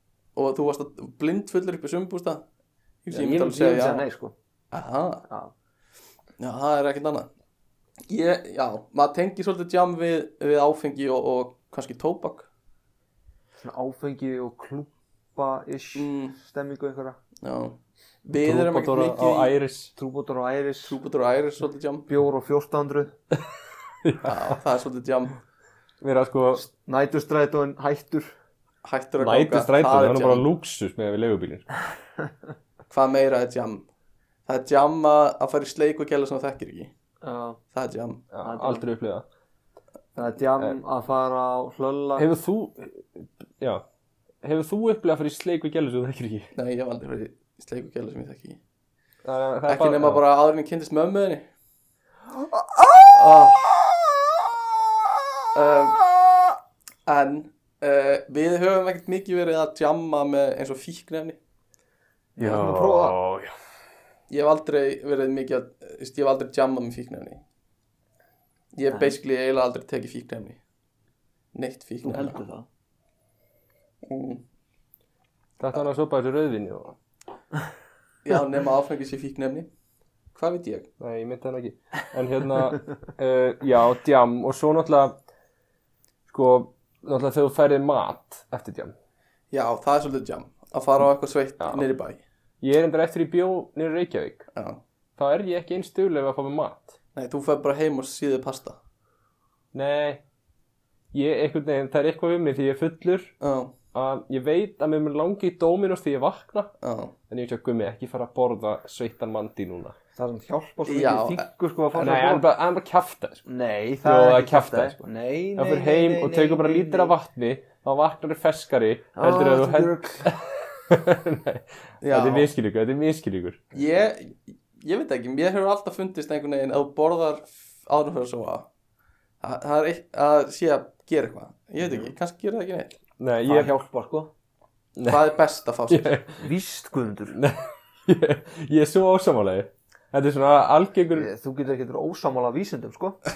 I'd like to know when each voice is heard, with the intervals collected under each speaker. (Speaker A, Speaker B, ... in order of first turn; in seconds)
Speaker A: 0.3-2.4, 3.0-4.0, 4.7-5.2, 6.4-7.3, 8.1-12.5, 15.9-16.4, 17.4-19.5, 20.9-22.1, 24.2-25.4, 28.8-30.5, 32.9-33.9, 34.5-36.9, 37.7-38.2, 46.5-48.6, 49.7-51.5, 53.1-53.8, 55.5-56.0, 57.0-61.4, 64.3-67.4, 68.7-70.6, 71.5-72.4, 74.0-74.4, 78.2-79.7, 80.3-80.9, 89.5-92.2, 94.5-94.8, 97.1-98.8, 103.4-103.7, 106.8-107.1, 110.8-111.5, 122.0-122.5, 123.7-128.7, 129.4-132.9, 135.0-136.2
Speaker B: 3.1-4.3, 5.3-5.5, 13.6-17.2, 19.9-21.0, 22.1-23.1, 26.7-28.3, 37.2-37.6, 38.4-38.9, 40.1-42.2, 52.5-53.2, 62.4-63.2, 72.0-72.7, 110.1-112.4, 113.5-117.1, 119.2-120.3, 131.8-132.1, 133.4-134.3, 136.4-137.4, 141.1-143.2
Speaker C: 18.4-19.9, 24.0-24.6, 26.0-26.6, 29.2-31.7, 38.3-39.2, 42.2-43.8, 44.4-46.5, 49.2-50.2, 62.4-63.5, 75.6-77.0, 81.0-85.1, 86.3-88.9, 92.6-94.5, 95.2-97.0, 99.7-100.2, 101.1-103.3, 103.9-106.7, 107.3-109.9, 111.9-113.4, 114.0-115.0, 115.5-123.7, 133.2-133.7, 135.0-135.3, 135.9-136.4, 137.3-141.3